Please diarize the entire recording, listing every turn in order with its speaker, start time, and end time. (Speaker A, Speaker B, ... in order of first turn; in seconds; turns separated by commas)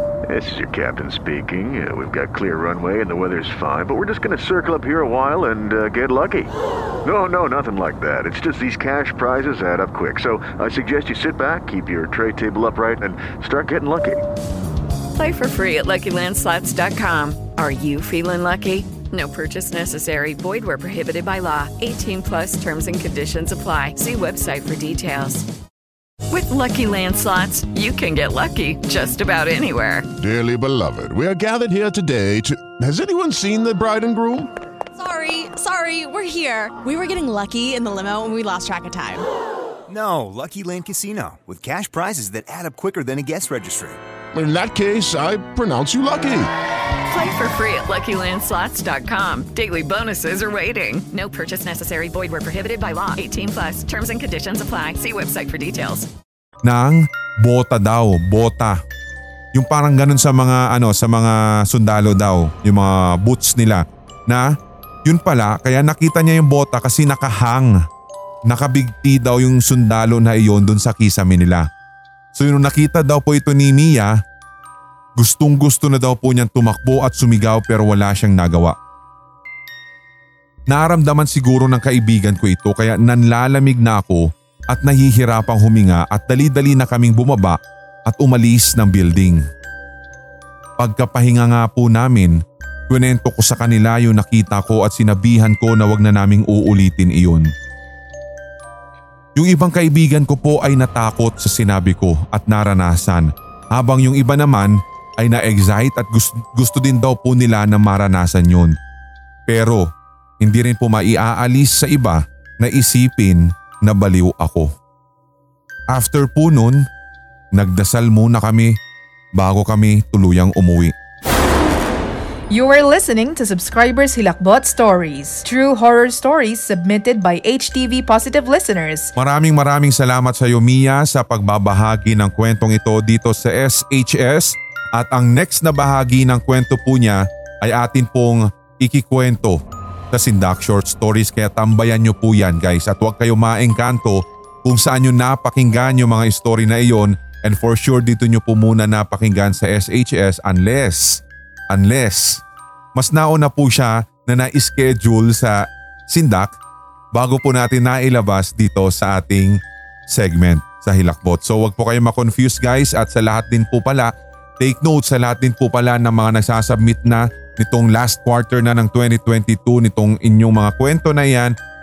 Speaker A: 0.3-6.5, Speaker A: 7.0-14.2, Speaker B: 15.1-25.4, Speaker B: 26.3-30.1, Speaker C: 30.2-34.5, Speaker D: 35.0-39.2, Speaker E: 39.9-44.0, Speaker C: 44.3-46.5, Speaker B: 47.1-56.1, Speaker F: 56.6-58.8, Speaker F: 59.5-64.5, Speaker F: 65.0-67.8, Speaker F: 68.5-71.7, Speaker F: 72.3-74.2, Speaker F: 75.2-78.8, Speaker F: 80.7-89.4, Speaker F: 90.8-97.5, Speaker F: 99.3-108.8, Speaker F: 109.5-109.9, Speaker F: 110.4-114.7, Speaker F: 115.9-116.9, Speaker F: 117.5-118.8, Speaker F: 119.3-120.9, Speaker G: 122.5-129.1, Speaker F: 129.2-152.4, Speaker F: 152.9-156.6, Speaker F: 157.1-171.5